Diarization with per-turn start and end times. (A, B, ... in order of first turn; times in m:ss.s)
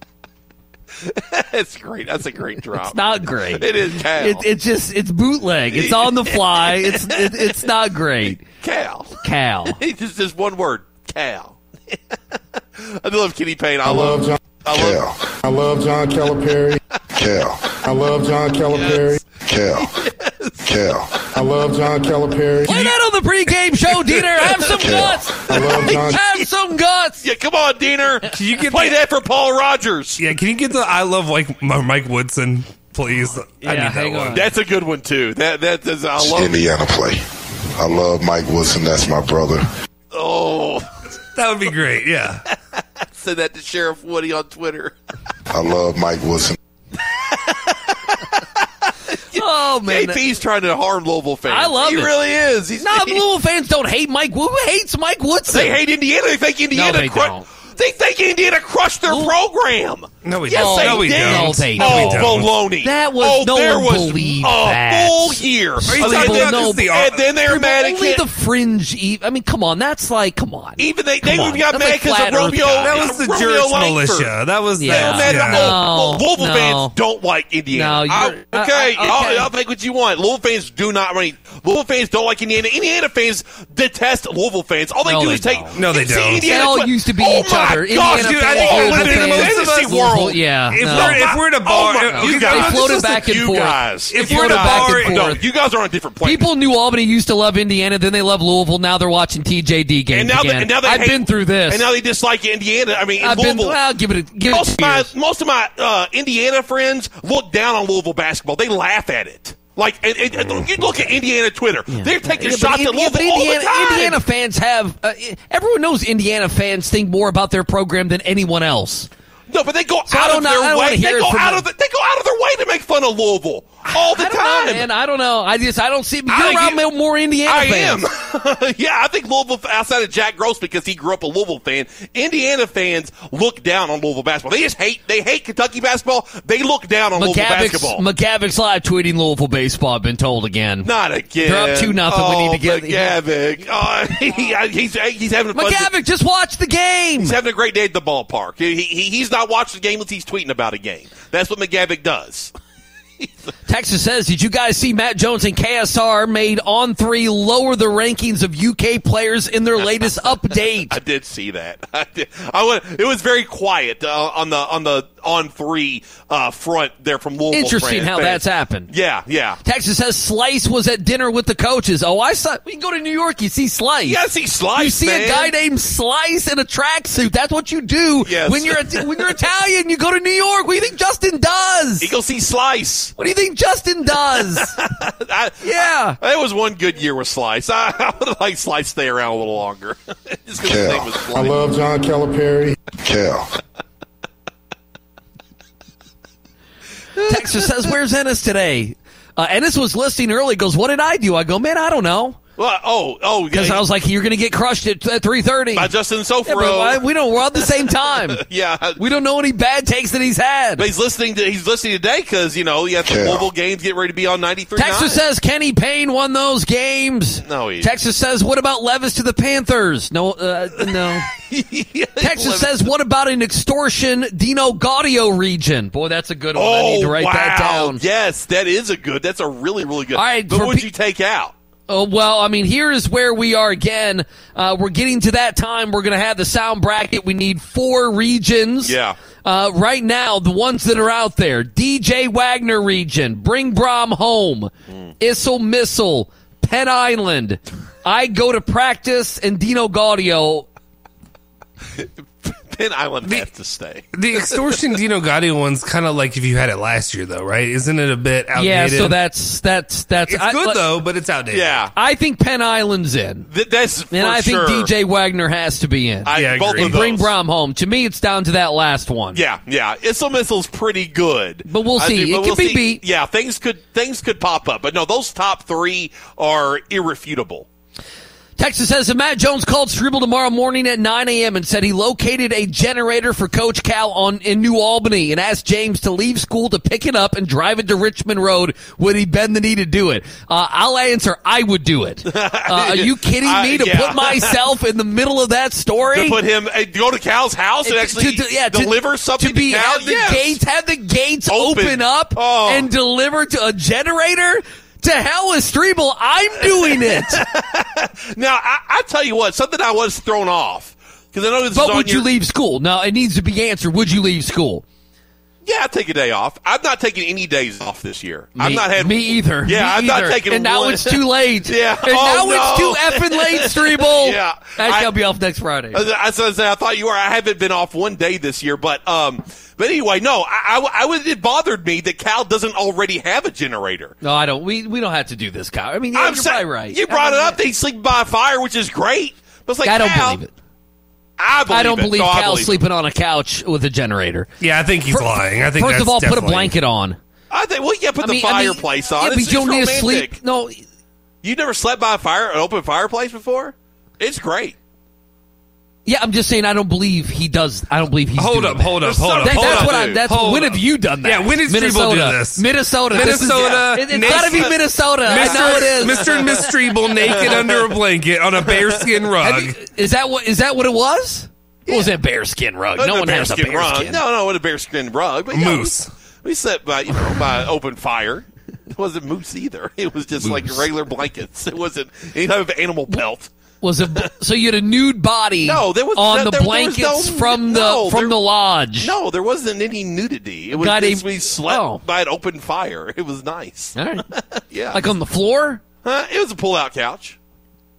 0:01.1-0:03.0 A
0:02.8-0:08.4 B
0:03.5-0:04.5 A
0:05.7-0:07.7 A
0:08.3-0:12.0 A
0:09.2-0:09.8 B
0:12.8-0:15.0 A
0:13.8-0:14.4 C
0:14.7-0:15.3 D
0:15.4-0:16.8 C
0:17.2-0:17.8 D
0:17.8-0:19.2 C
0:18.7-0:19.1 A
0:19.4-0:19.9 D
0:19.8-0:20.5 A
0:20.6-0:21.2 D
0:21.3-0:22.9 C
0:22.7-0:27.2 B
0:23.7-0:25.0 A
0:24.8-0:25.3 D
0:25.5-0:26.5 A
0:25.5-0:26.2 C
0:27.2-0:30.2 A
0:28.3-0:29.0 E
0:30.2-0:34.4 E
0:33.6-0:34.5 B
0:34.3-0:36.6 A
0:36.2-0:37.2 D
0:37.8-0:39.7 D
0:40.1-0:40.9 A
0:41.4-0:42.4 E
0:43.1-0:44.9 A
0:45.5-0:46.6 D
0:47.1-0:53.2 A
0:49.3-0:50.2 B
0:51.5-0:52.1 B
0:52.8-0:55.8 B
0:55.5-1:08.3 A
0:56.7-0:57.5 B
0:59.1-0:59.3 B
1:00.2-1:02.5 E
1:00.5-1:06.9 B
1:05.9-1:07.2 E
1:07.5-1:13.1 B
1:10.8-1:36.5 A
1:12.8-1:15.8 E
1:14.8-1:17.0 B
1:17.7-1:19.5 B
1:25.0-1:25.7 B
1:25.7-1:26.5 E
1:26.4-1:31.3 B
1:28.0-1:30.2 E
1:30.7-1:33.4 E
1:32.1-1:35.4 B
1:34.1-1:35.4 E
1:36.2-1:41.9 B
1:40.1-1:43.8 A
1:43.2-1:45.1 B
1:44.5-1:54.2 A
1:51.9-1:59.1 B
1:59.5-2:04.9 A
2:00.1-2:01.6 B
2:03.9-2:08.0 B
2:06.3-2:06.8 A
2:07.5-2:18.1 A
2:17.2-2:20.9 B
2:20.8-2:25.9 A
2:21.4-2:23.2 B
2:25.5-2:27.4 B
2:27.2-2:32.5 A
2:33.7-2:41.0 B
2:40.0-2:49.6 A
2:47.5-2:48.9 B
2:49.6-2:54.2 B
2:54.0-2:55.6 A
2:54.8-3:02.1 B
2:58.2-2:59.4 A
3:02.0-3:03.1 A
3:03.2-3:04.7 B
3:04.4-3:11.7 A
3:05.6-3:06.2 B
3:10.6-3:11.1 D
3:11.3-3:12.7 C
3:13.0-3:13.5 D
3:17.2-3:17.9 A
3:17.2-3:22.4 B
3:22.6-3:23.9 A
3:23.5-3:25.9 B
3:25.7-3:27.0 A
3:26.4-3:28.4 B
3:27.6-3:29.0 A
3:29.0-3:30.8 B
3:30.8-3:35.2 A
3:33.0-3:33.5 D
3:34.8-3:41.3 B
3:37.4-3:37.9 A
3:40.8-3:42.9 A
3:42.2-3:48.0 B
3:46.5-3:51.5 A
3:50.1-3:50.9 B
3:51.9-4:10.7 B
3:58.8-3:59.2 A
4:12.0-4:15.0 A
4:14.1-4:19.2 E
4:18.6-4:20.8 B
4:20.3-4:21.8 E
4:21.5-4:21.9 A
4:22.0-4:23.5 B
4:23.5-4:24.9 A
4:24.1-4:29.4 B
4:26.2-4:27.3 A
4:26.3-4:27.0 E
4:29.3-4:37.7 A
4:31.7-4:33.0 B
4:38.6-4:56.4 B
4:52.3-4:54.6 A
4:56.1-5:00.6 A
4:57.8-5:07.4 B
5:01.5-5:02.9 A
5:06.6-5:12.3 A
5:11.7-5:14.8 B
5:15.6-5:25.2 A
5:18.6-5:26.0 B
5:25.9-5:34.2 A
5:34.2-5:37.6 B
5:36.1-5:40.4 A
5:39.8-5:40.5 B
5:41.4-5:42.8 A
5:41.7-5:44.5 B
5:44.6-5:46.7 E
5:45.1-5:47.2 B
5:47.5-5:50.4 A
5:48.2-5:50.8 B
5:51.4-5:54.8 A
5:56.0-6:06.7 B
5:58.4-6:09.8 E
5:59.0-6:00.3 A
6:03.1-6:08.0 A
6:07.3-6:07.6 B
6:08.6-6:09.3 A
6:09.4-6:14.2 B
6:11.9-6:12.1 A
6:13.0-6:23.5 A
6:15.5-6:16.1 E
6:20.4-6:20.8 B
6:23.8-6:29.1 B
6:24.0-6:24.3 A
6:25.6-6:28.4 A
6:29.0-6:35.1 A
6:30.7-6:32.0 B
6:34.0-6:34.2 B
6:34.9-6:35.8 B
6:36.0-6:37.4 A